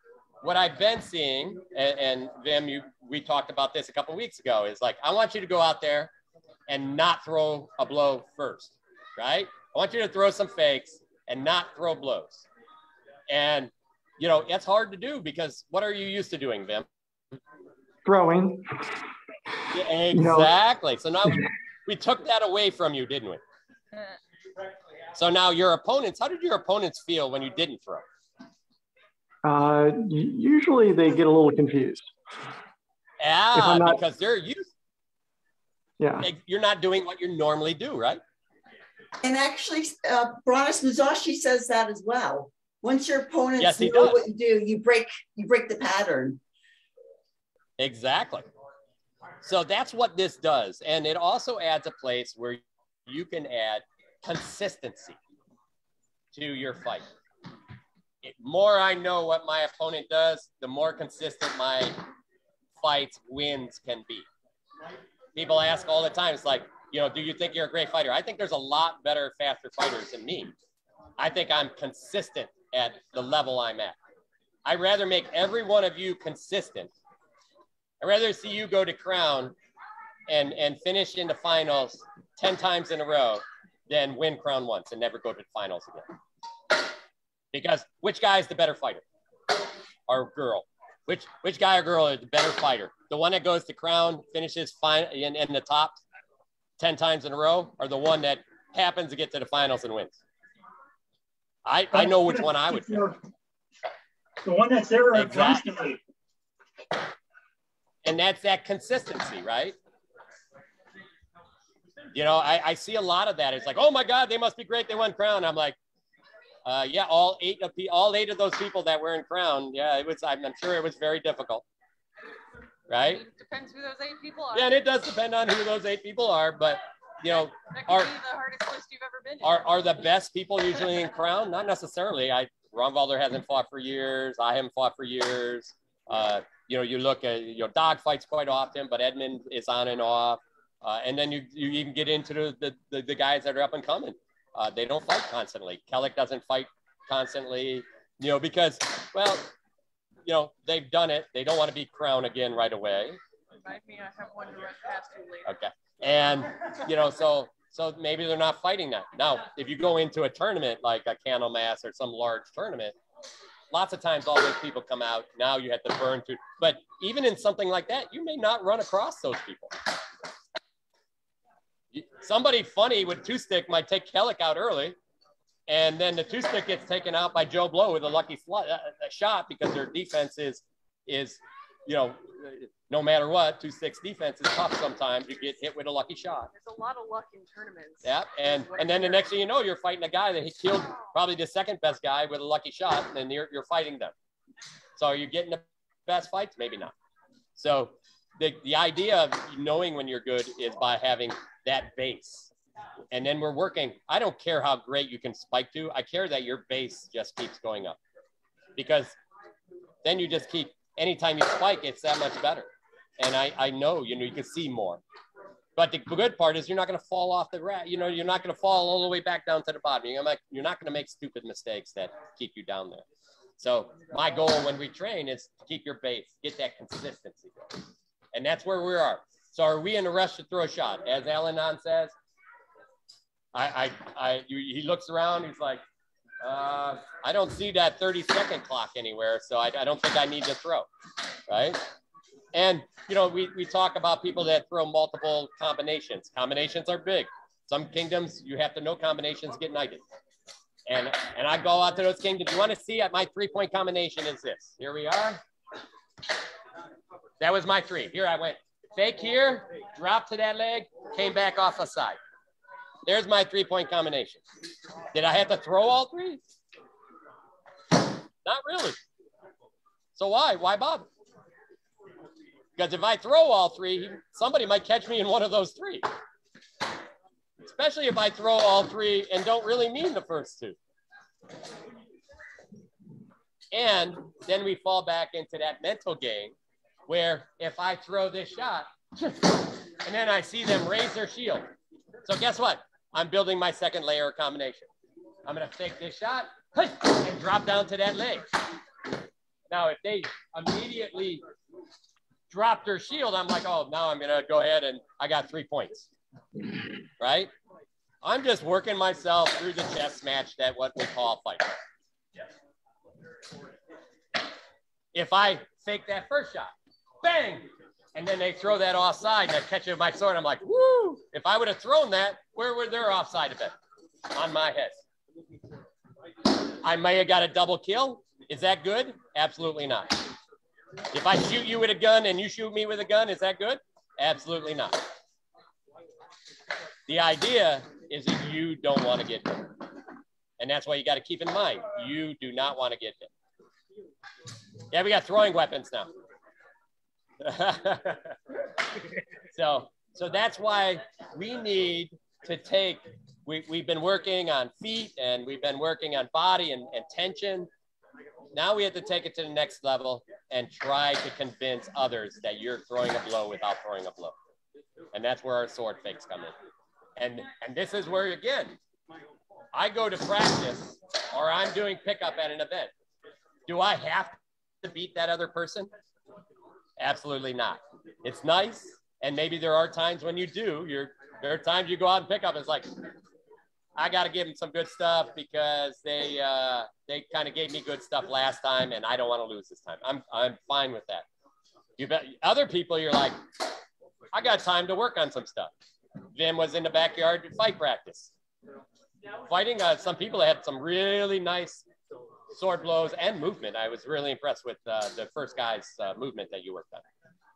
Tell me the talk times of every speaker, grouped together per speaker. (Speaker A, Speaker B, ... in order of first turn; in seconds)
Speaker A: 0.4-6.1, 6.7-12.5, 13.3-16.9, 19.7-23.4, 25.1-28.1, 33.2-34.7, 36.2-38.2, 43.6-44.2, 47.8-48.5, 49.4-55.2, 56.3-57.1, 58.2-62.0, 62.8-64.3, 65.3-70.5, 71.2-74.0, 74.7-76.9, 78.0-79.5, 80.3-86.0, 87.5-89.0, 90.1-96.0, 96.8-100.2, 101.7-103.1, 105.1-105.7, 108.0-109.8, 112.1-115.8, 116.7-121.6, 122.9-123.2, 124.5-128.1, 129.4-149.5, 150.3-153.2, 155.5-162.9, 163.7-169.7, 171.9-175.0, 175.7-186.5, 188.0-194.1, 195.0-196.9, 197.6-202.5, 203.1-208.0, 208.8-209.2, 210.0-215.0, 215.8-223.1, 223.6-227.7, 228.3-232.1, 233.5-235.8, 236.4-240.9, 241.5-241.8, 242.5-250.0, 250.9-255.4, 257.4-262.2, 263.1-264.4, 265.1-266.4, 268.4-269.0, 270.2-271.1, 272.8-276.1, 277.6-280.8, 283.7-286.5, 287.1-291.7, 292.2-294.9, 295.5-298.5, 299.7-301.4, 302.5-306.1, 307.2-307.5, 308.2-311.8, 315.1-323.8, 324.3-325.0, 326.7-330.2, 331.1-335.0, 337.1-339.8, 340.6-343.3, 344.9-346.1, 347.4-348.4, 349.5-357.7, 358.5-364.3, 365.1-366.5, 367.2-368.8, 369.7-372.9, 373.7-375.9, 377.0-382.9, 384.0-391.3, 392.0-393.4, 394.3-395.7, 396.3-398.3, 399.4-401.9, 402.5-407.0
Speaker B: 18.1-18.6, 20.1-20.5, 29.4-32.0, 33.5-34.0, 36.0-36.3
Speaker C: 39.2-46.4
Speaker D: 101.9-103.2, 104.4-106.0
Speaker E: 123.0-124.7, 127.3-129.7, 153.7-155.5, 186.5-189.3